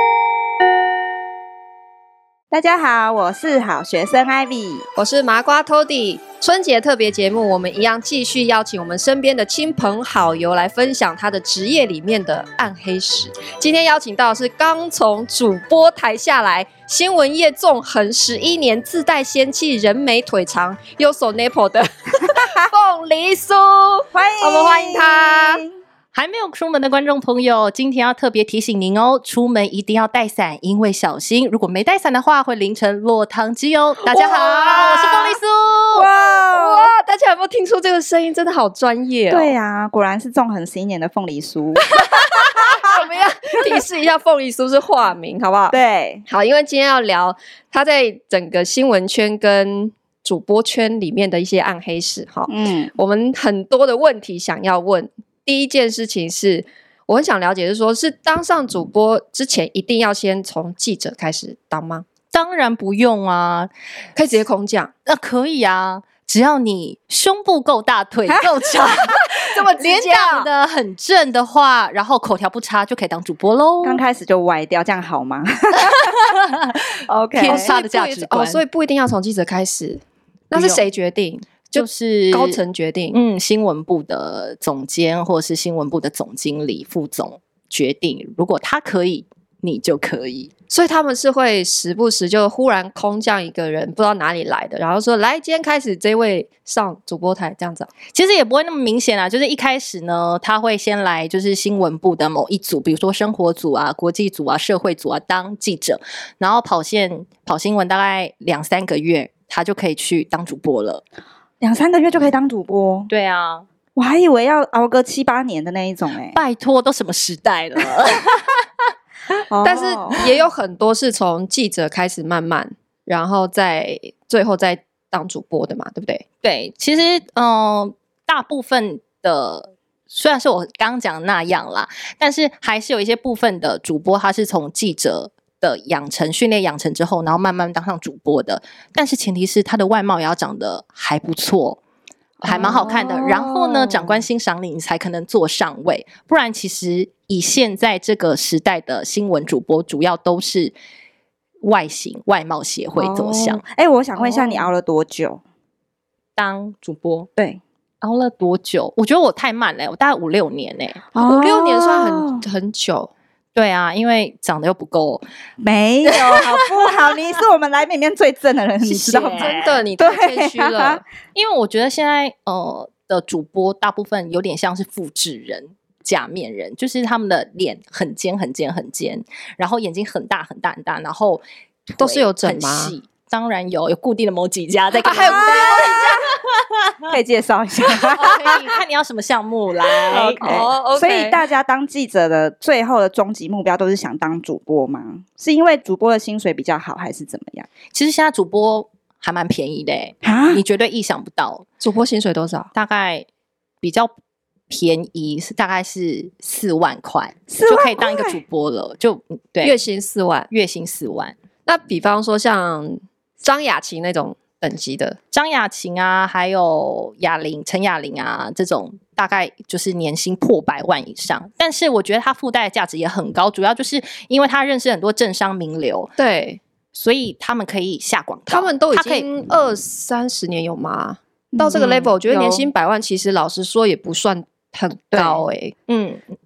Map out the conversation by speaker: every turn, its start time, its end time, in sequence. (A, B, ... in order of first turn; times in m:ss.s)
0:02.5-0:04.9 A
0:05.0-0:25.6 B
0:24.1-0:25.7 A
0:26.1-0:36.1 C
0:34.1-0:35.1 B
0:34.3-0:34.7 A
0:35.9-0:36.9 A
0:36.5-0:39.5 B
0:39.3-0:43.0 A
0:41.9-1:02.1 B
0:45.7-0:46.2 A
0:52.5-0:52.9 A
1:02.3-1:03.7 C
1:04.2-1:04.9 B
1:05.1-1:14.0 C
1:09.2-1:10.5 B
1:13.8-1:16.2 A
1:15.9-1:18.6 C
1:17.1-1:17.7 A
1:17.4-1:23.2 B
1:21.8-1:22.6 C
1:23.1-1:30.5 C
1:30.7-1:37.9 B
1:38.1-1:51.0 C
1:51.6-1:53.1 A
1:53.1-1:53.7 C
1:54.0-1:56.4 A
1:56.4-1:58.6 C
1:59.5-2:00.3 A
1:59.6-2:06.2 B
2:06.4-2:21.8 C
2:22.4-2:24.2 A
2:22.5-2:23.0 B
2:22.5-2:30.8 C
2:31.6-2:33.6 C
2:33.0-2:35.4 A
2:36.4-2:37.3 C
2:38.0-2:41.0 C
2:41.1-2:42.4 A
2:41.2-2:43.1 B
2:43.6-2:45.2 C
2:45.6-2:51.0 A
2:48.8-2:51.0 B
2:49.3-2:49.8 C
2:51.4-3:07.1 C
3:02.0-3:02.9 B
3:05.0-3:06.3 B
3:05.1-3:06.1 A
3:07.1-3:08.5 A
3:08.1-3:10.6 C
3:08.2-3:08.8 B
3:10.1-3:17.7 A
3:10.4-3:11.4 B
3:17.9-3:21.6 C
3:20.2-3:20.6 A
3:21.8-3:22.7 B
3:22.8-3:23.3 C
3:23.8-3:24.1 C
3:24.7-3:29.8 C
3:27.5-3:28.4 A
3:29.6-3:30.5 B
3:30.5-3:31.4 C
3:31.7-3:35.2 B
3:35.3-3:46.1 C
3:46.2-3:46.6 B
3:46.9-3:49.3 C
3:48.5-3:55.8 B
3:51.5-3:52.7 A
3:55.1-3:55.4 A
3:55.9-3:56.2 C